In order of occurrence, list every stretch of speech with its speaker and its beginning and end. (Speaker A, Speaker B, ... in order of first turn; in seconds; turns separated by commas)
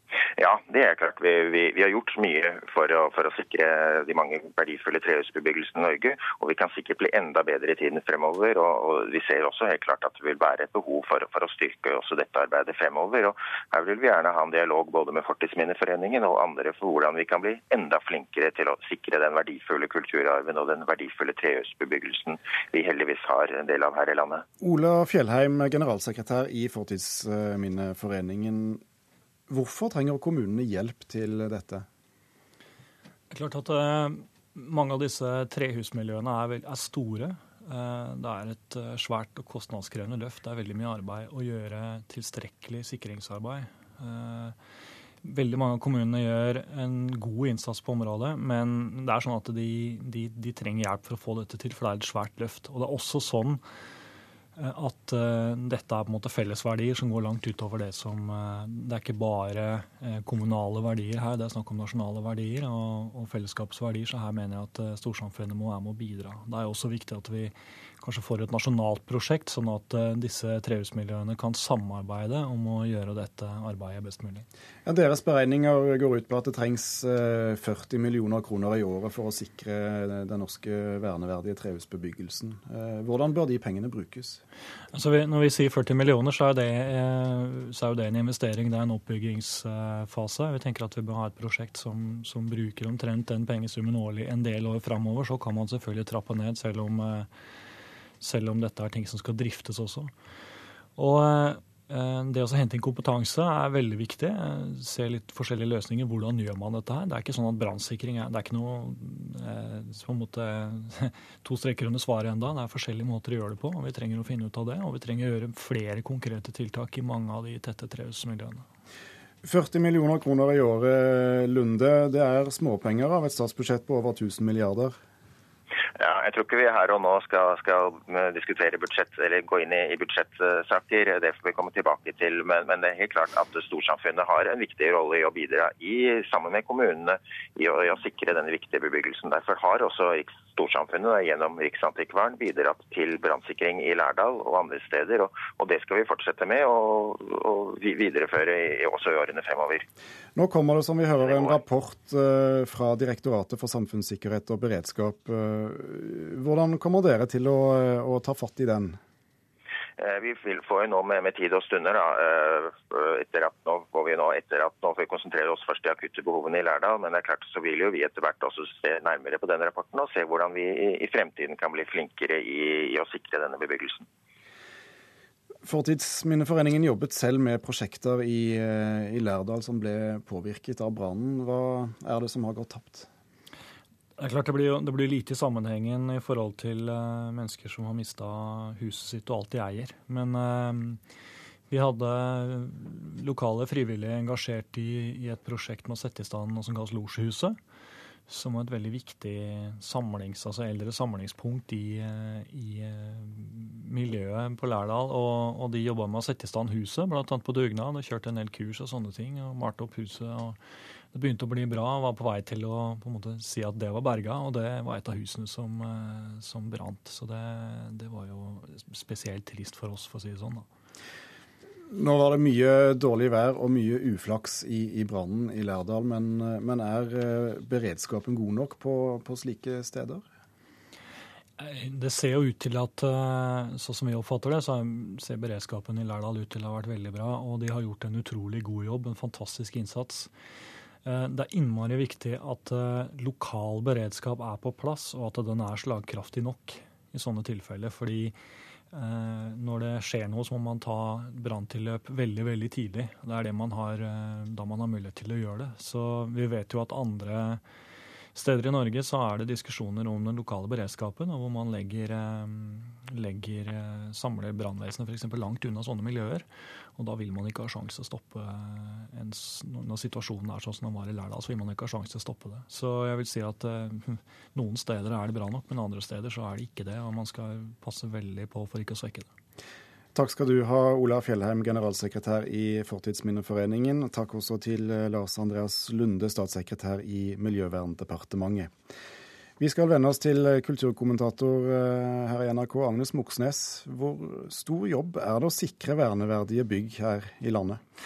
Speaker A: 0.4-24.4, Speaker B: 24.6-28.8, Speaker B: 29.5-31.9, Speaker C: 33.3-44.6, Speaker C: 45.2-53.6, Speaker C: 54.6-74.5, Speaker B: 74.8-84.4, Speaker C: 84.9-97.3, Speaker C: 98.2-100.1, Speaker C: 101.0-118.7, Speaker B: 119.4-125.0, Speaker A: 126.0-149.8, Speaker B: 150.4-159.0, Speaker A: 151.2-151.6, Speaker A: 160.0-174.1, Speaker B: 175.6-183.1, Speaker C: 184.2-191.0, Speaker C: 191.7-197.6, Speaker C: 198.3-210.6, Speaker C: 211.1-220.7, Speaker B: 221.9-230.2, Speaker C: 231.6-240.3, Speaker C: 241.1-248.3, Speaker C: 248.9-257.6, Speaker C: 258.3-279.3, Speaker B: 280.1-288.7, Speaker B: 289.6-297.8